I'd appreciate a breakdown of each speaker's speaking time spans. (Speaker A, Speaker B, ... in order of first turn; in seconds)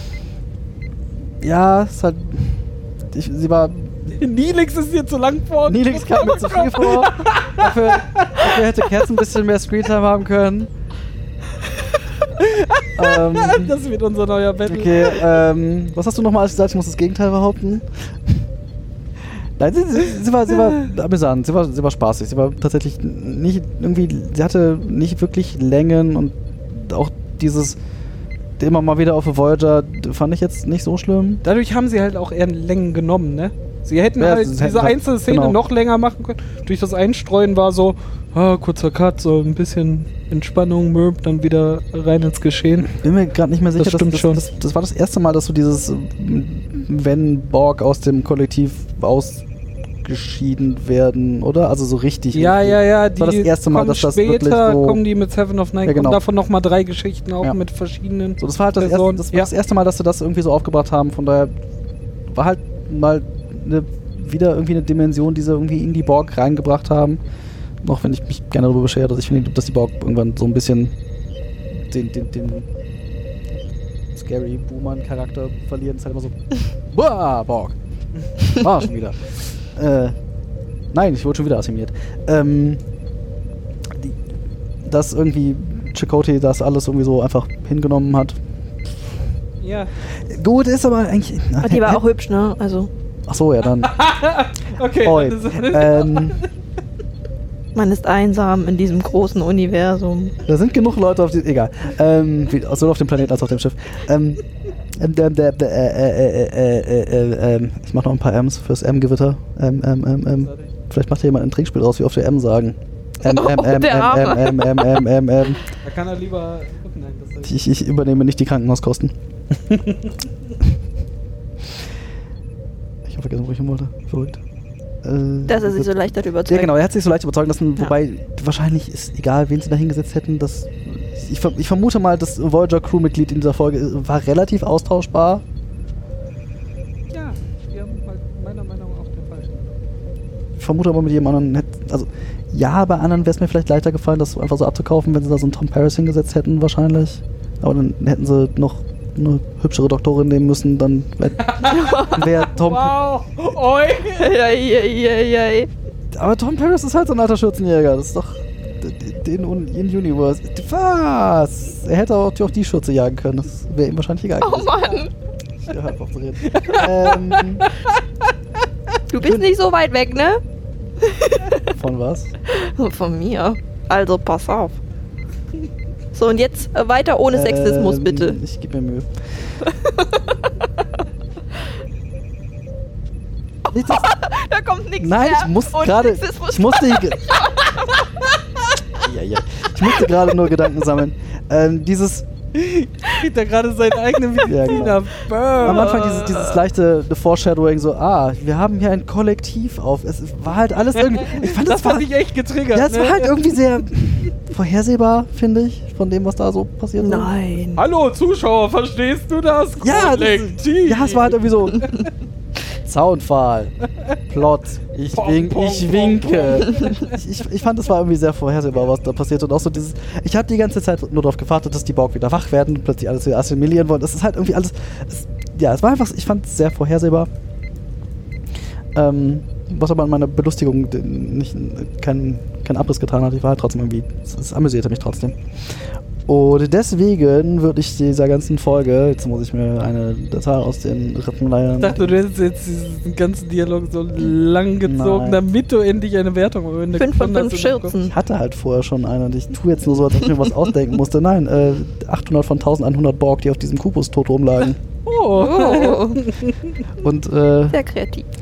Speaker A: 1.4-4.2, 5.7-10.7, 12.9-13.7, 14.7-18.5, 19.6-27.8, 28.6-31.4, 34.2-35.6, 42.8-49.4, 50.0-55.0, 55.8-56.2, 58.4-61.5, 62.3-67.2, 67.8-70.9, 71.7-72.7, 74.1-77.8, 78.4-80.1, 80.9-82.8, 83.9-84.2, 84.8-88.4, 90.1-92.0, 93.3-93.9, 95.0-96.4, 100.4-104.4, 105.0-115.6, 117.4-119.1, 123.0-124.4, 125.0-135.4, 140.6-152.9, 156.1-165.1, 165.6-167.7, 169.2-169.4, 171.7-172.3, 177.3-179.6, 183.7-184.1, 185.0-187.3, 188.9-192.3, 194.4-202.1, 202.7-207.3, 209.8-212.0, 212.8-213.8, 214.3-227.3, 228.9-242.2, 244.8-245.4, 248.1-254.8, 257.0-257.8
Speaker B: 4.1-9.1, 12.4-15.4, 31.4-42.9, 43.8-44.4, 52.3-59.5, 89.6-89.9, 93.8-96.5, 110.4-110.7, 115.8-117.5, 119.7-120.2, 137.1-139.8, 151.4-154.4, 166.4-168.0, 192.5-196.0, 201.0-203.3, 207.8-212.1, 215.1-217.2, 241.8-247.9, 255.0-256.5
Speaker C: 91.6-92.9, 97.7-100.3, 113.2-115.0, 125.5-126.7, 151.7-152.2, 154.1-155.7, 164.4-165.1, 169.1-170.4, 171.0-171.7, 172.4-174.8, 176.1-178.4, 179.6-180.7, 183.6-188.3, 189.8-190.1, 195.6-196.6, 207.0-207.8, 246.9-248.1, 255.3-256.3, 257.7-258.3